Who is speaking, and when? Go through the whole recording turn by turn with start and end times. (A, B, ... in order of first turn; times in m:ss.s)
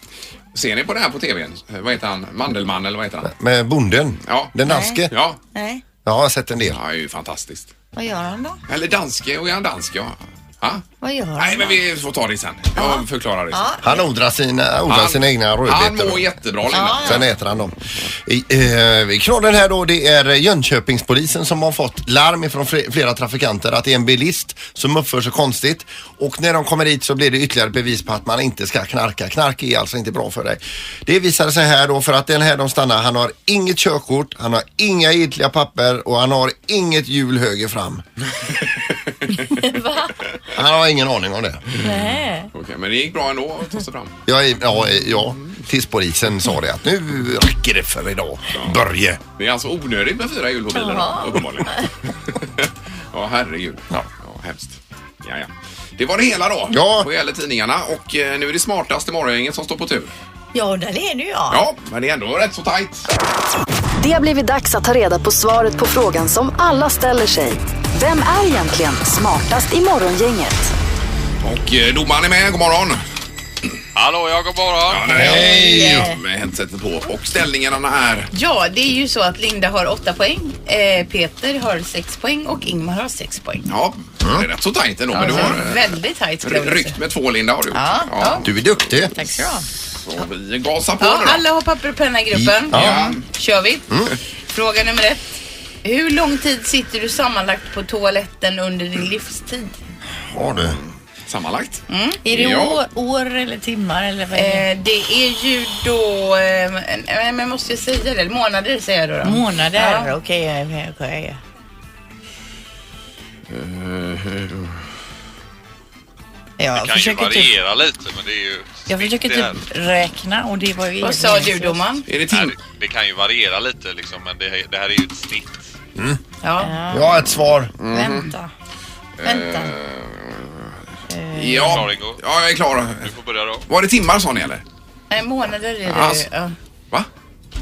0:00.5-0:03.3 A
0:03.2-0:05.1 B
0:04.2-0:04.5 A
0:04.6-0:05.8 C
0:05.1-0:05.4 A
0:06.0-0:06.8 B
0:06.7-0:07.7 A
0:07.9-0:08.6 C
0:08.7-0:10.8 A
0:11.0-0:11.8 C
0:11.4-0:13.6 A
0:12.8-0:14.0 C
0:13.8-0:16.3 B
0:14.9-0:17.3 A
0:16.7-0:17.2 C
0:16.9-0:38.0 B
0:39.3-0:40.2 C
0:40.5-0:41.6 B
0:41.8-0:42.5 C
0:42.5-0:44.2 A
0:44.2-0:49.2 B
0:49.3-1:00.1 A
0:50.7-0:51.9 C
0:56.7-0:57.1 B
1:00.5-1:01.6 C
1:01.5-1:03.1 A
1:04.0-1:10.7 D
1:11.4-1:13.0 A
1:13.9-1:15.2 E
1:14.9-1:18.3 A
1:15.1-1:16.1 B
1:15.2-1:16.2 C
1:18.3-1:23.7 F
1:23.7-1:29.3 A
1:25.1-1:27.0 F
1:27.7-1:28.1 C
1:28.2-1:28.4 F
1:28.4-1:29.1 B
1:29.1-1:29.6 C
1:30.0-1:31.4 A
1:31.0-1:39.7 F
1:32.3-1:33.1 B
1:32.7-1:33.2 A
1:40.3-1:40.8 B
1:40.4-1:42.8 A
1:41.9-1:42.2 F
1:42.2-1:44.7 C
1:44.3-1:50.1 F
1:49.2-1:51.4 C
1:53.5-1:54.8 A
1:56.6-1:57.5 C
1:56.7-1:59.6 E
1:58.9-2:01.8 C
2:01.0-2:02.1 F
2:02.1-2:02.6 A
2:02.3-2:05.6 E
2:06.4-2:06.8 F
2:06.6-2:07.3 C
2:06.9-2:07.7 B
2:07.8-2:08.3 A
2:07.8-2:08.5 C
2:09.2-2:10.7 A
2:09.2-2:09.7 C
2:11.1-2:11.8 C
2:11.3-2:13.1 A
2:11.5-2:12.2 E
2:13.0-2:13.6 E
2:13.7-2:14.6 A
2:15.1-2:16.5 F
2:15.8-2:16.3 A